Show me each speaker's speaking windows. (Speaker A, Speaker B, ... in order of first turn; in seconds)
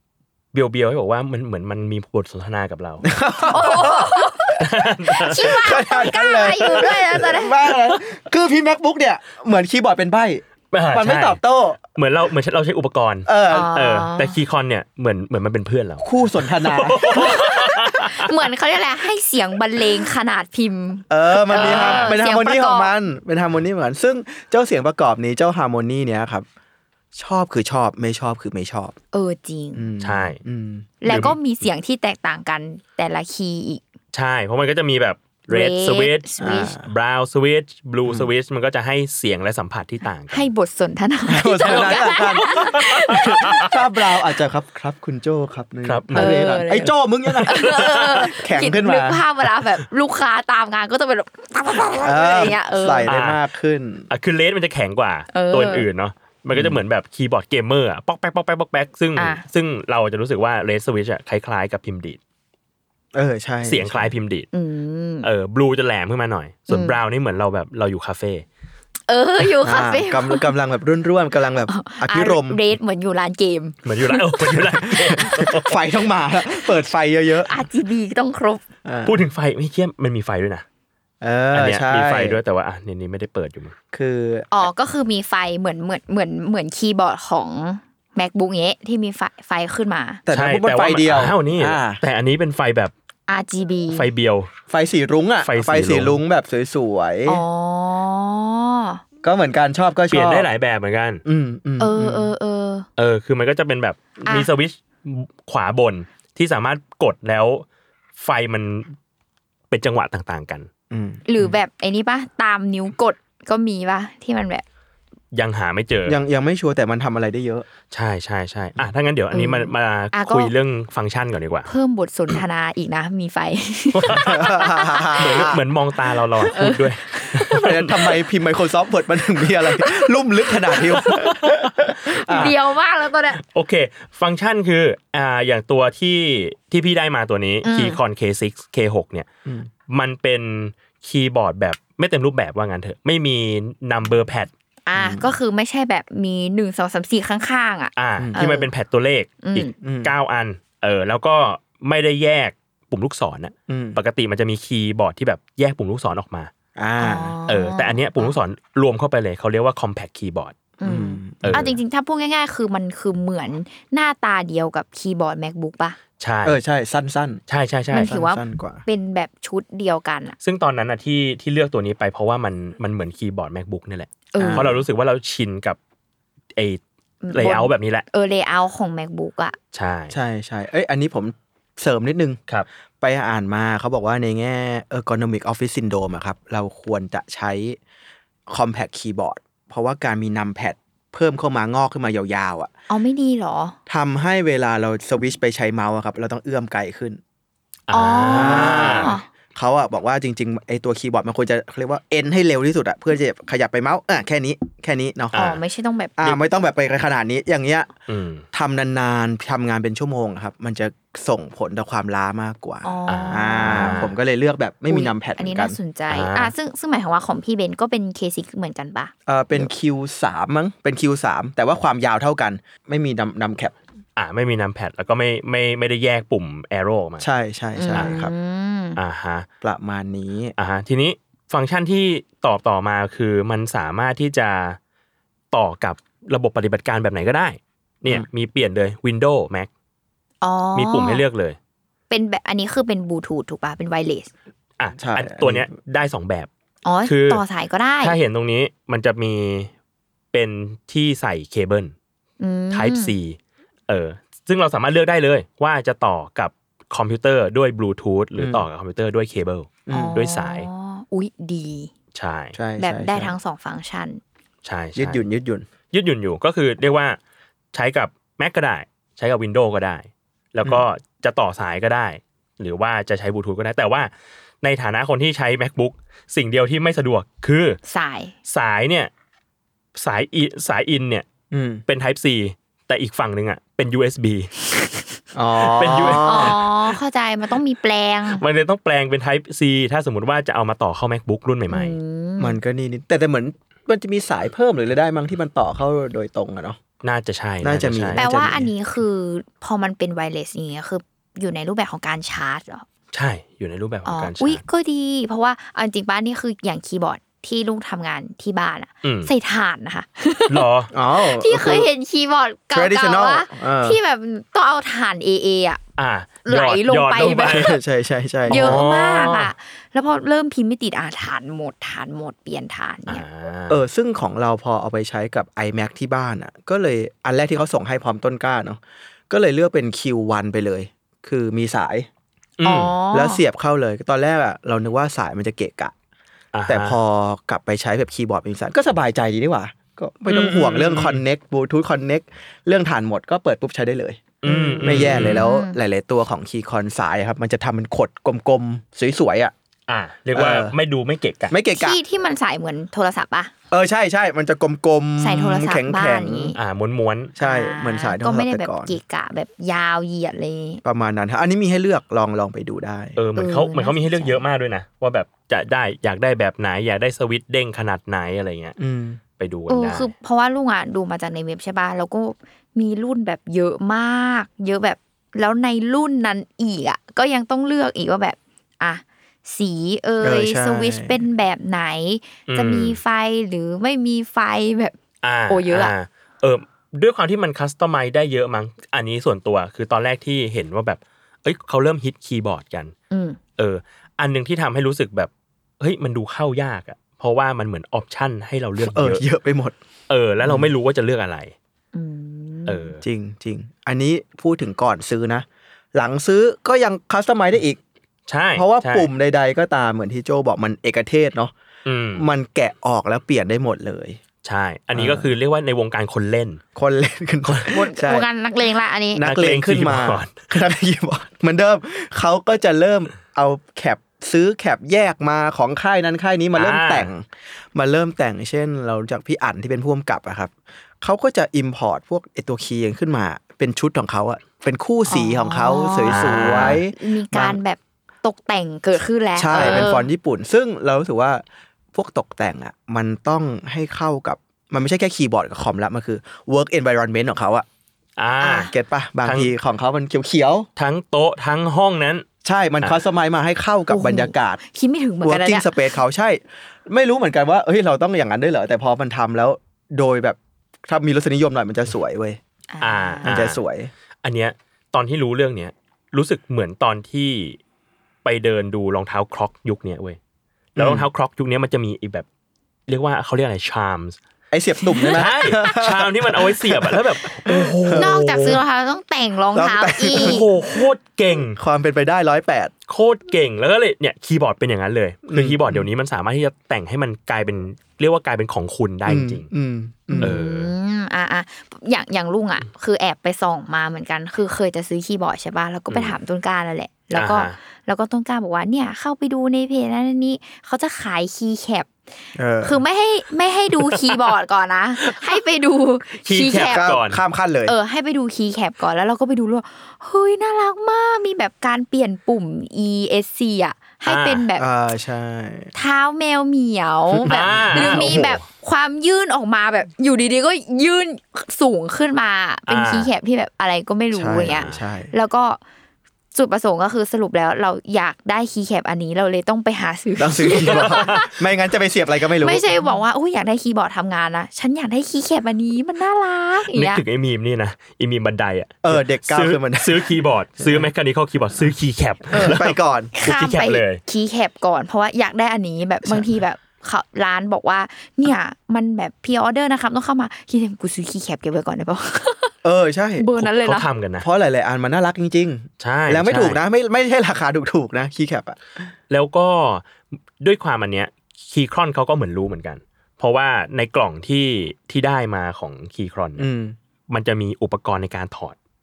Speaker A: 0.5-3.1, 4.6-5.6, 10.7-11.4, 11.9-18.3, 21.5-22.1, 30.0-30.4, 31.1-31.4, 34.1-40.5, 41.6-43.7, 45.8-46.6, 47.6-48.2, 53.1-53.4, 54.1-62.2, 63.6-64.5, 65.2-68.5, 73.8-75.7, 79.0-80.6, 81.5-83.8, 90.3-92.9, 93.9-94.5, 95.4-96.2, 100.1-101.2, 103.0-107.6, 108.2-109.0, 109.7-110.7, 115.3-116.2, 117.9-121.7, 124.0-124.3, 125.2-128.1, 130.9-131.8, 132.3-132.5, 133.4-139.3, 139.9-144.5, 148.0-156.5, 157.5-160.5, 161.4-161.8, 166.2-166.6, 167.5-168.1, 170.4-175.8, 177.3-178.1, 179.7-180.2, 197.9-199.1, 205.3-205.6, 208.1-208.4, 213.1-214.1, 216.1-216.5, 224.2-227.3, 229.0-229.5, 230.6-234.8, 235.5-239.7, 240.8-241.6, 244.8-246.5, 247.0-247.4, 248.0-249.7, 250.3-251.9, 252.7-253.4, 253.9-260.7, 262.1-262.6, 264.6-265.2, 265.9-267.2, 267.7-274.1, 274.6-277.8, 278.5-279.1, 280.0-281.2, 281.9-284.5, 285.6-286.6, 288.4-292.0, 297.0-298.3, 303.1-304.6, 309.0-309.3, 310.5-310.9, 316.0-317.7, 318.5-319.5, 323.1-323.8, 332.6-332.9, 336.5-337.0, 340.3-341.2, 344.4-345.5, 349.9-351.5, 356.6-357.3, 363.1-368.8, 369.4-370.1, 382.5-383.0, 385.2-392.9, 393.6-399.2, 400.1-401.5, 402.7-403.0, 408.3-409.1, 411.9-412.2, 414.4-416.6, 417.4-417.8, 419.2-420.4, 426.6-427.1, 436.1-436.8, 439.5-439.9, 448.2-448.7, 449.2-449.5, 450.8-452.2, 462.8-463.6, 464.2-467.6, 468.2-470.2, 470.8-472.2, 472.9-474.2, 475.1-478.6, 480.1-481.6, 482.9-489.5, 490.2-490.7, 497.1-497.5, 506.2-507.2, 514.0-514.4, 517.3-518.4, 522.7-523.1, 530.6-531.2, 536.7-544.0, 553.4-554.3, 555.8-556.6, 559.1-559.9, 560.4-566.5, 567.1-568.6
Speaker B: 3.0-4.5, 5.2-11.8, 13.2-13.7, 16.0-17.4, 21.1-26.5, 27.1-29.0, 29.8-31.3, 36.4-36.9, 38.0-38.3, 41.3-49.2, 52.0-54.1, 56.5-56.8, 63.1-64.1, 69.6-72.6, 74.8-77.5, 78.8-79.2, 81.2-82.4, 83.9-84.7, 90.3-92.0, 94.7-97.4, 99.2-100.5, 101.2-102.3, 110.9-111.5, 116.1-117.7, 124.1-125.6, 127.5-132.5, 145.0-145.3, 149.8-150.1, 153.7-154.0, 156.8-157.3, 160.8-161.7, 166.4-167.4, 168.0-168.8, 174.4-174.8, 180.1-182.4, 183.0-187.8, 188.5-192.7, 193.9-197.2, 198.3-205.4, 206.2-207.9, 208.5-215.8, 219.2-223.8, 227.2-228.3, 229.6-230.5, 245.0-245.7, 258.4-258.6, 259.9-260.2, 262.5-263.4, 265.0-265.6, 281.5-281.8, 285.3-286.6, 292.4-296.8, 297.6-298.7, 310.9-311.9, 312.7-314.0, 317.5-318.8, 323.7-332.1, 333.1-335.9, 336.7-349.5, 350.3-350.8, 351.5-352.0, 353.7-356.5, 357.4-359.0, 360.8-363.2, 368.8-369.2, 380.2-381.1, 398.8-399.8, 400.4-400.7, 403.0-407.8, 408.5-411.5, 412.1-414.2, 414.9-415.3, 416.8-418.3, 419.1-437.6, 439.4-441.4, 441.9-447.6, 448.7-450.7, 452.4-454.6, 455.2-462.4, 463.2-463.9, 470.8-471.1, 474.5-478.5, 479.5-480.5, 481.5-482.7, 485.3-485.9, 489.1-490.4, 502.4-502.8, 506.5-507.7, 514.6-515.7, 517.1-518.4, 524.1-525.1, 530.2-532.6, 538.8-540.1, 542.4-543.1, 552.6-553.3, 554.2-558.6, 566.4-566.8
Speaker C: 3.5-7.6, 13.5-14.3, 17.1-22.9, 29.1-29.9, 31.0-33.8, 35.5-36.8, 40.3-43.7, 46.1-46.9, 47.4-53.1, 55.3-55.9, 59.2-59.4, 64.5-65.3, 66.7-67.0, 69.1-70.5, 71.7-73.8, 74.8-75.5, 77.5-78.6, 84.5-90.2, 93.3-94.1, 97.2-99.0, 101.8-102.9, 111.2-114.6, 119.3-120.5, 121.7-125.5, 126.5-127.7, 132.2-133.4, 137.6-138.0, 144.9-148.7, 149.4-149.7, 157.0-158.4, 160.8-166.0, 167.9-170.4, 174.3-174.7, 177.2-179.6, 192.9-193.8, 197.9-199.3, 205.3-206.4, 212.8-214.1, 214.9-219.7, 227.8-229.0, 240.4-241.2, 242.1-244.3, 246.8-248.2, 252.4-253.1, 259.9-261.9, 262.8-264.2, 277.9-278.3, 286.2-288.4, 291.7-292.6, 298.1-302.9, 304.1-310.6, 311.2-315.8, 316.4-317.8, 318.5-323.2, 332.6-333.4, 344.5-345.8, 351.8-353.5, 355.2-356.6, 357.4-360.8, 363.4-364.4, 369.7-384.9, 385.5-385.9, 393.1-393.4, 401.9-402.9, 417.8-419.2, 435.1-440.1, 448.4-448.7, 453.9-455.8, 462.7-463.3, 474.9-475.2, 478.0-480.4, 490.1-501.9, 502.6-506.9, 507.6-514.6, 515.8-525.6, 526.3-531.3, 532.4-537.0, 542.3-542.6, 543.1-552.5, 553.2-553.9